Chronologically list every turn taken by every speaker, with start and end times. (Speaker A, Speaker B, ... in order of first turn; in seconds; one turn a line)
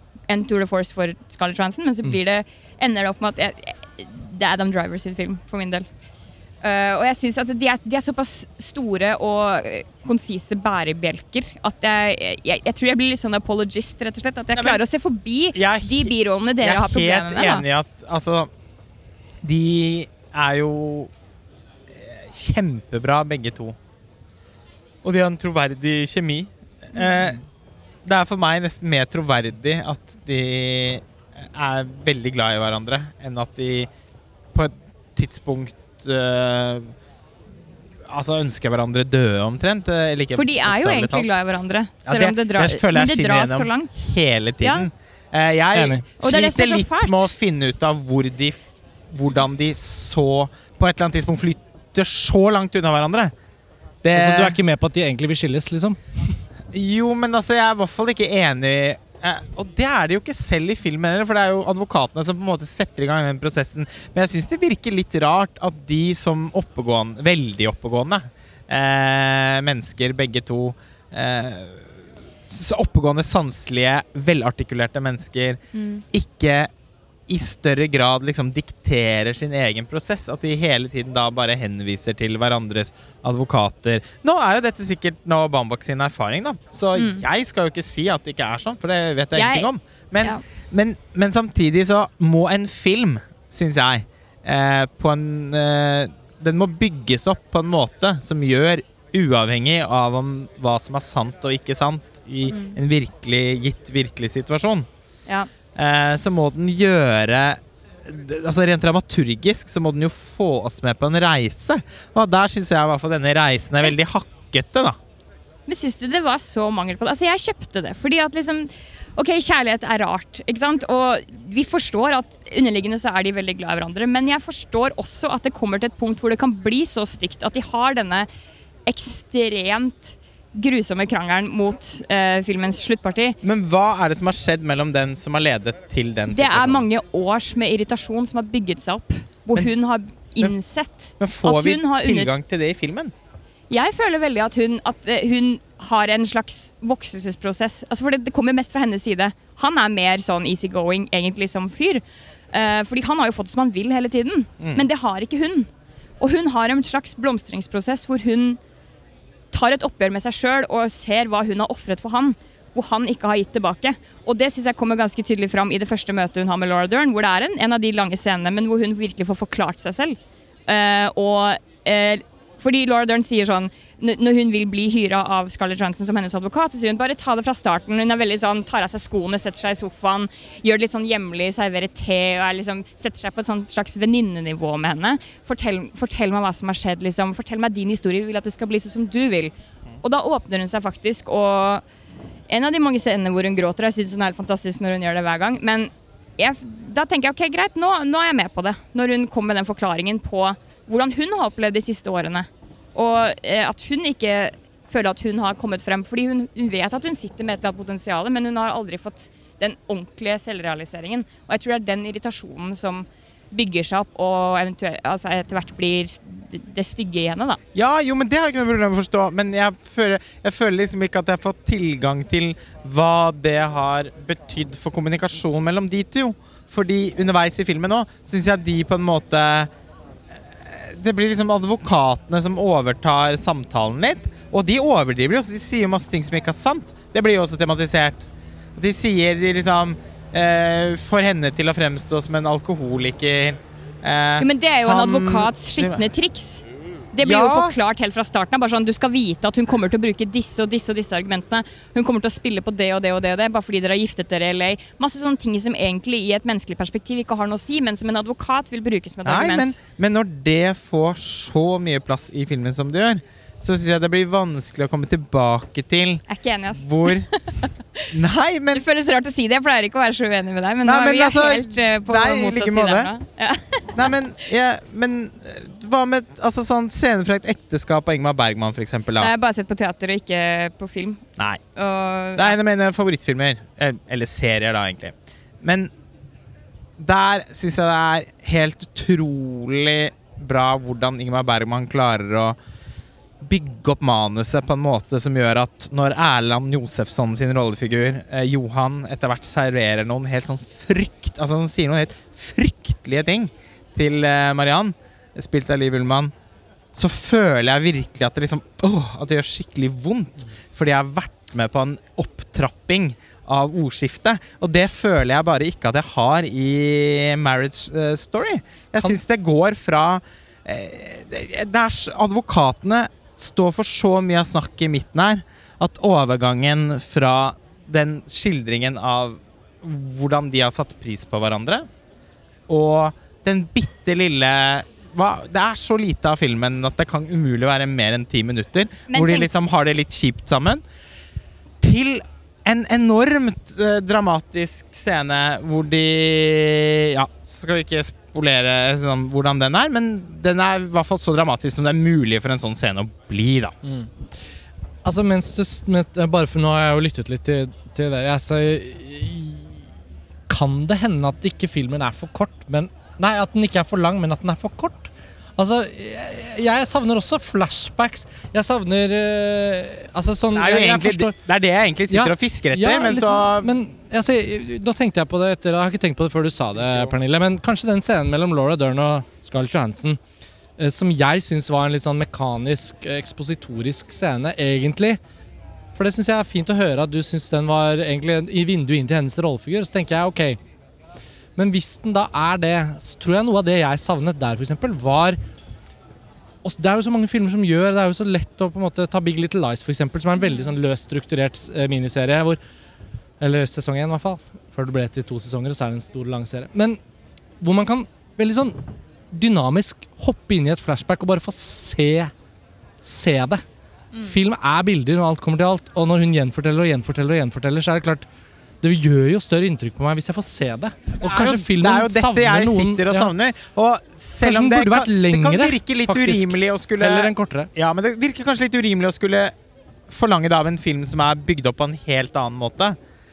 Speaker A: 0.3-5.9
Speaker A: 6.6-17.6
Speaker B: 14.5-14.8
Speaker B: 15.5-18.5
Speaker B: 19.4-21.1
Speaker B: 21.9-23.8
Speaker B: 25.0-27.4
Speaker B: 28.0-33.9
Speaker B: 34.5-36.9
Speaker B: 38.1-41.3
Speaker A: 40.3-43.9
Speaker B: 42.0-48.6
Speaker A: 44.6-44.9
Speaker C: 45.7-46.0
Speaker A: 46.2-47.3
Speaker B: 49.1-53.3
Speaker B: 54.0-54.5
Speaker C: 54.1-56.0
Speaker B: 56.7-71.9
Speaker B: 72.5-75.6
Speaker A: 75.7-76.0
Speaker B: 76.1-76.7
Speaker B: 77.3-104.9
Speaker A: 86.9-87.2
Speaker A: 89.3-89.7
Speaker A: 102.5-102.8
Speaker B: 105.7-115.0
Speaker A: 115.7-128.3
Speaker A: 128.9-133.4
Speaker B: 133.4-136.8
Speaker A: 136.3-142.3
Speaker B: 141.2-143.1
Speaker A: 143.7-155.7
Speaker A: 156.2-158.6
Speaker A: 159.5-191.8
Speaker A: 192.5-217.6
Speaker B: 217.7-229.7
Speaker B: 230.6-246.1
Speaker A: 244.4-259.8
Speaker B: 247.2-247.7
Speaker B: 259.2-266.2
Speaker A: 266.3-268.1
Speaker B: 266.8-267.3
Speaker B: 268.1-268.8
Speaker A: 268.7-274.0
Speaker B: 270.8-273.1
Speaker B: 273.9-279.3
Speaker A: 279.2-281.2
Speaker A: 281.8-282.5
Speaker B: 282.4-285.9
Speaker B: 287.0-292.6
Speaker B: 293.4-306.3
Speaker B: 306.9-331.9
Speaker B: 332.7-340.8
Speaker A: 339.1-339.5
Speaker B: 341.8-353.7
Speaker C: 353.8-354.1
Speaker C: 355.0-359.8
Speaker C: 360.5-371.3
Speaker B: 370.5-373.7
Speaker C: 372.1-380.2
Speaker C: 380.8-385.2
Speaker C: 385.9-390.6
Speaker C: 391.6-395.4
Speaker C: 396.6-402.6
Speaker C: 403.4-407.0
Speaker C: 407.6-412.3
Speaker C: 413.0-413.6
Speaker C: 414.2-418.2
Speaker C: 418.8-423.3
Speaker B: 421.2-429.5
Speaker C: 424.4-427.7
Speaker B: 430.1-433.0